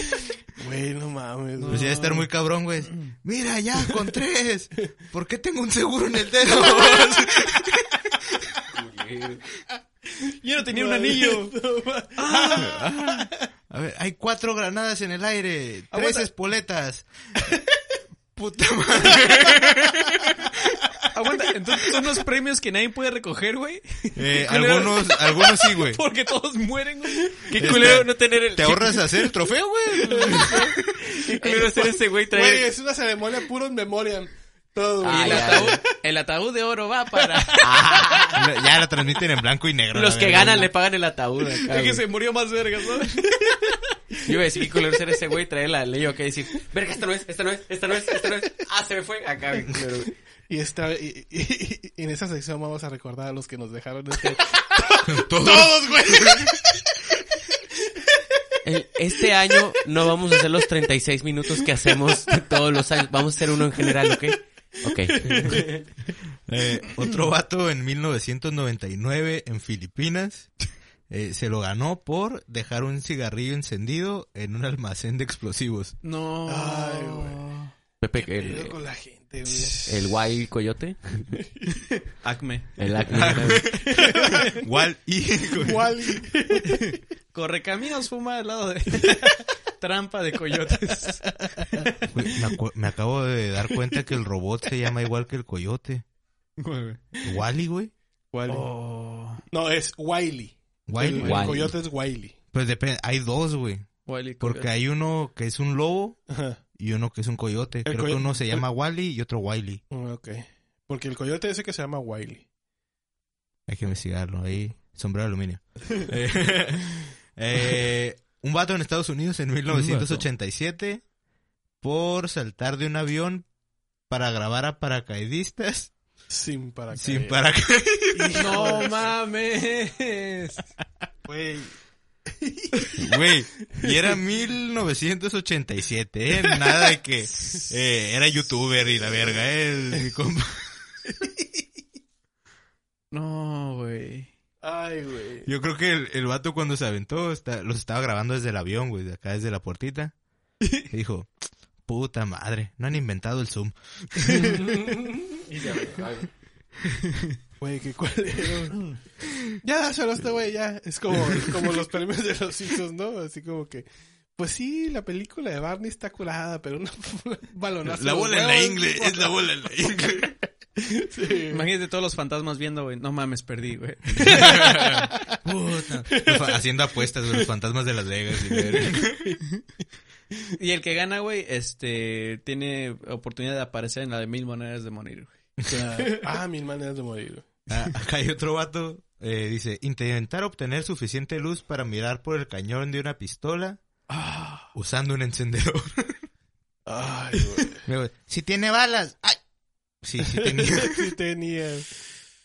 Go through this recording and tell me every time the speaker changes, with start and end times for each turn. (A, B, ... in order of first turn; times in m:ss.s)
0:00.6-0:01.9 A
0:01.6-0:02.3 B
0:01.7-0:08.0 C
0:06.8-0:07.2 B
0:08.7-0:09.4 D
0:10.4-0:11.6 B
0:10.7-0:13.3 A
0:12.2-0:12.8 B
0:12.6-0:17.1 C
0:15.9-0:16.3 B
0:18.4-0:20.8 C
0:21.1-0:28.0 B
0:24.2-0:26.0 C
0:27.4-0:29.0 D
0:27.6-0:30.7 C
0:30.0-0:32.0 B
0:30.1-0:30.7 A
0:31.0-0:32.7 D
0:32.3-0:35.8 A
0:35.0-0:35.8 D
0:35.0-0:38.3 B
0:37.6-0:38.4 D
0:38.4-0:40.7 C
0:39.9-0:42.0 D
0:41.7-0:43.8 B
0:44.2-0:50.1 D
0:50.5-0:57.0 A
0:55.0-0:56.5 C
0:58.6-1:05.7 D
0:59.5-0:59.7 A
1:05.2-1:05.7 A
1:06.5-1:10.5 C
1:11.1-1:15.9 C
1:16.0-1:17.7 B
1:16.5-1:17.5 A
1:18.0-1:18.8 D
1:18.2-1:19.8 A
1:19.5-1:19.9 B
1:19.8-1:21.3 D
1:21.7-1:24.4 B
1:22.8-1:23.7 D
1:23.1-1:25.9 C
1:23.9-1:24.4 A
1:25.6-1:27.0 A
1:26.7-1:31.9 B
1:32.1-1:36.0 C
1:36.6-1:37.0 B
1:37.2-1:37.9 C
1:38.3-1:38.7 A
1:38.5-1:39.4 B
1:39.5-1:42.4 A
1:40.9-1:41.7 C
1:41.2-1:41.7 D
1:42.5-1:43.9 C
1:44.0-1:44.7 B
1:44.4-1:46.2 C
1:46.3-1:46.6 A
1:46.8-1:49.8 C
1:47.8-1:48.6 A
1:49.9-1:52.4 A
1:53.7-2:01.0 C
1:59.7-2:00.2 B
2:01.8-2:03.4 C
2:04.1-2:05.9 C
2:06.3-2:07.4 A
2:06.9-2:08.8 C
2:08.1-2:09.1 A
2:08.3-2:10.7 B
2:11.2-2:11.7 A
2:12.4-2:13.3 A
2:13.0-2:20.7 C
2:23.1-2:24.3 B
2:24.6-2:25.5 A
2:25.4-2:30.1 C
2:30.9-2:31.3 C
2:31.9-2:34.5 C
2:34.3-2:34.8 A
2:34.5-2:36.3 D
2:37.1-2:37.3 B
2:37.6-2:38.9 A
2:39.6-2:49.5 A
2:47.8-2:50.3 C
2:50.8-2:51.6 A
2:51.5-2:55.1 B
2:54.2-2:59.4 C
2:54.4-2:55.1 A
2:58.5-2:59.3 A
3:00.5-3:05.3 B
3:05.7-3:07.5 A
3:06.0-3:06.3 B
3:07.7-3:13.8 C
3:14.1-3:14.7 B
3:14.7-3:16.2 C
3:16.9-3:17.8 A
3:17.8-3:19.4 C
3:20.0-3:21.1 C
3:20.2-3:21.9 A